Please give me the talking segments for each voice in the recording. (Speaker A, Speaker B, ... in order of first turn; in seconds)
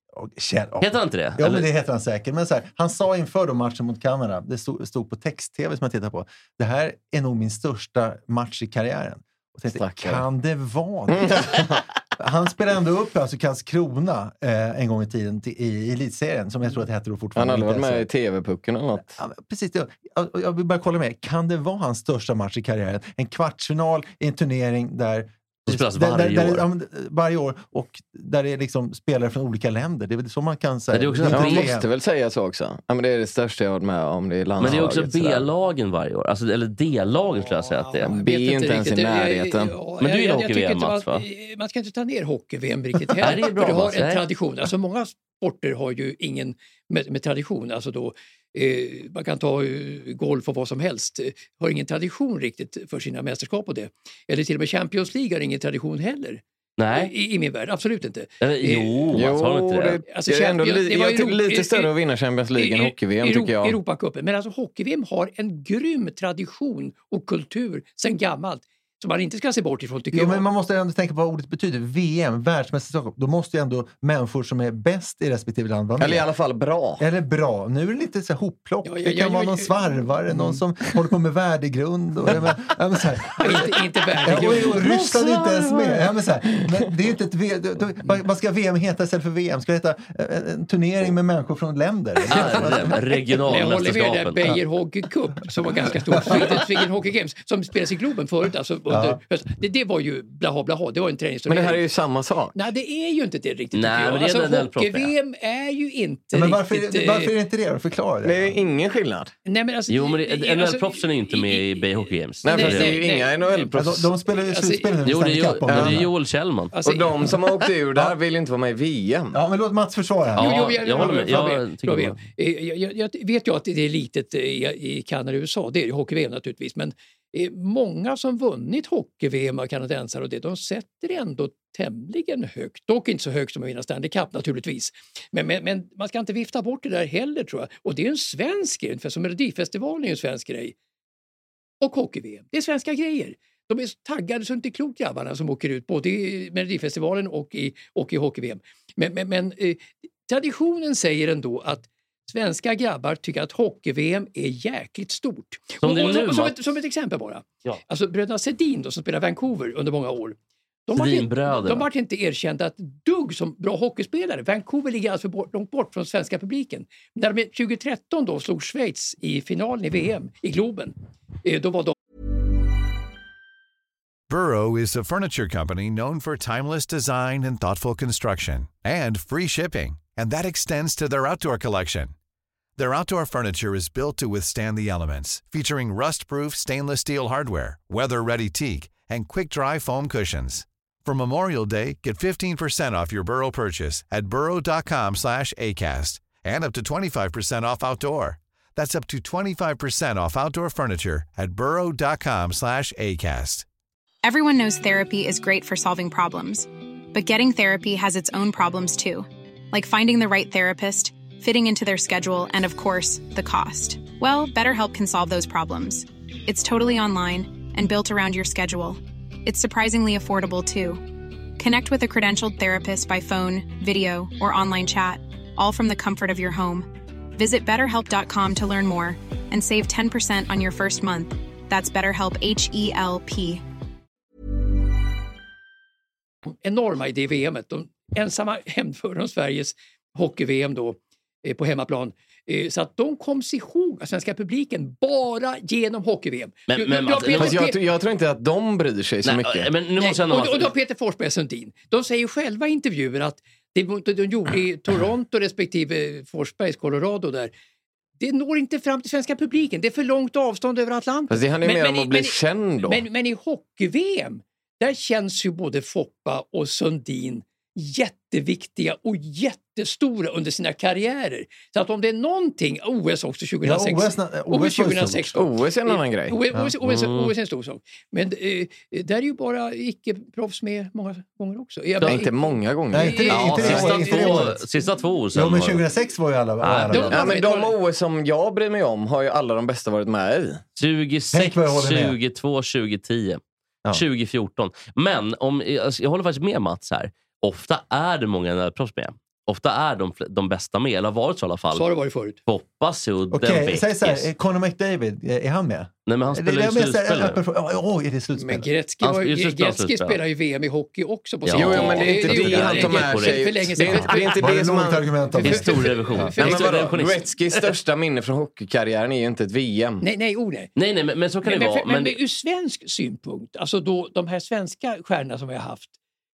Speaker A: 0.1-18.1, 19.2-31.9, 70.1-76.3, 77.0-93.0, 96.3-96.5, 98.9-99.2, 106.3-108.6, 113.7-116.1, 119.3-121.5, 273.6-275.4, 282.9-284.6, 285.3-287.2, 291.3-292.2, 303.3-308.7, 314.3-316.3
Speaker B: 0.8-1.7, 25.7-26.6, 30.9-31.7, 34.6-38.1, 40.0-41.2, 43.2-44.2, 56.8-57.1, 58.4-60.0, 84.5-85.8, 92.3-94.6, 103.7-105.1, 109.9-113.0, 115.0-116.7, 120.4-122.2, 155.8-156.6, 160.9-161.9, 246.7-247.6, 249.2-250.7, 276.8-277.3, 283.3-285.8, 286.6-287.1, 290.8-301.9, 302.5-304.3, 306.1-307.4, 309.0-310.2, 311.5-314.1, 315.4-317.7, 320.8-322.2
Speaker C: 9.7-10.2, 11.1-11.8, 17.4-19.2, 31.3-35.5, 38.0-39.8, 59.1-63.8, 76.0-77.0, 101.5-102.5, 108.2-109.3, 112.4-114.1, 115.7-116.0, 116.8-119.4, 247.4-249.7, 261.3-263.0, 275.4-276.4, 282.0-283.9, 287.1-290.6, 311.5-315.7, 316.3-320.0
Speaker D: 37.4-56.4, 56.9-59.1, 60.1-61.9, 62.6-70.5, 78.8-79.8, 83.4-84.8, 93.5-101.8, 102.5-107.3, 109.5-113.7, 114.3-114.9, 116.7-117.3, 120.4-140.8, 141.8-171.9, 236.5-247.8, 250.0-257.5, 258.2-284.9, 286.9-287.8, 301.7-302.4, 308.4-314.4, 315.3-316.9, 320.0-320.7, 321.4-325.9
Speaker E: 174.3-182.1, 182.8-203.7
Speaker F: 204.2-221.1, 221.6-233.6